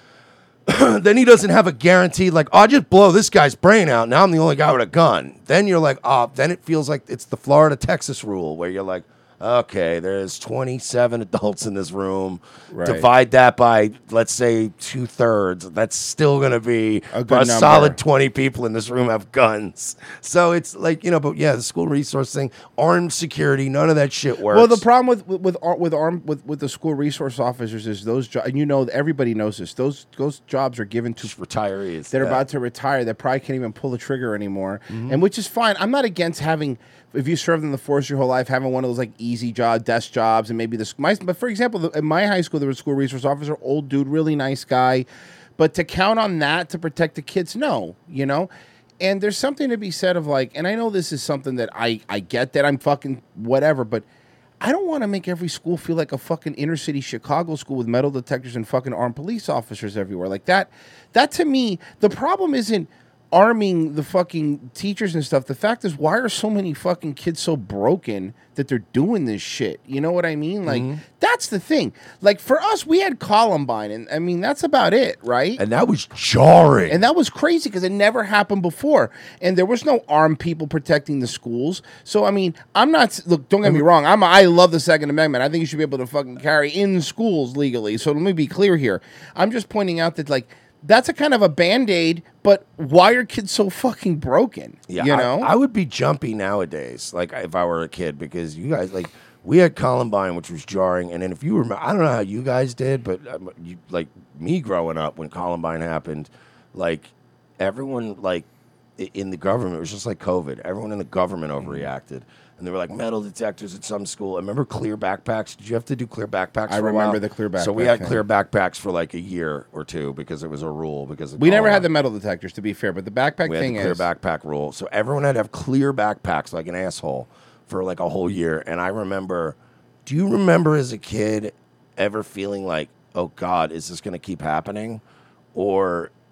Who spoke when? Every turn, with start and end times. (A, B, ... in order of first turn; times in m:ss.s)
0:00.7-0:24.8 A
0:12.7-0:13.0 B
0:17.1-0:18.0 B
0:24.5-0:31.3 B
0:31.2-0:32.4 A
0:32.1-0:48.5 B
0:34.9-0:35.2 A
0:49.0-0:54.0 B
0:54.6-1:15.6 B
1:10.6-1:11.0 A
1:15.6-1:17.0 A
1:16.9-1:35.5 B
1:34.9-2:01.9 A
1:51.6-1:51.9 B
1:56.7-1:58.2 B
2:01.4-2:04.0 B
2:03.4-2:15.0 A
2:15.5-2:16.1 A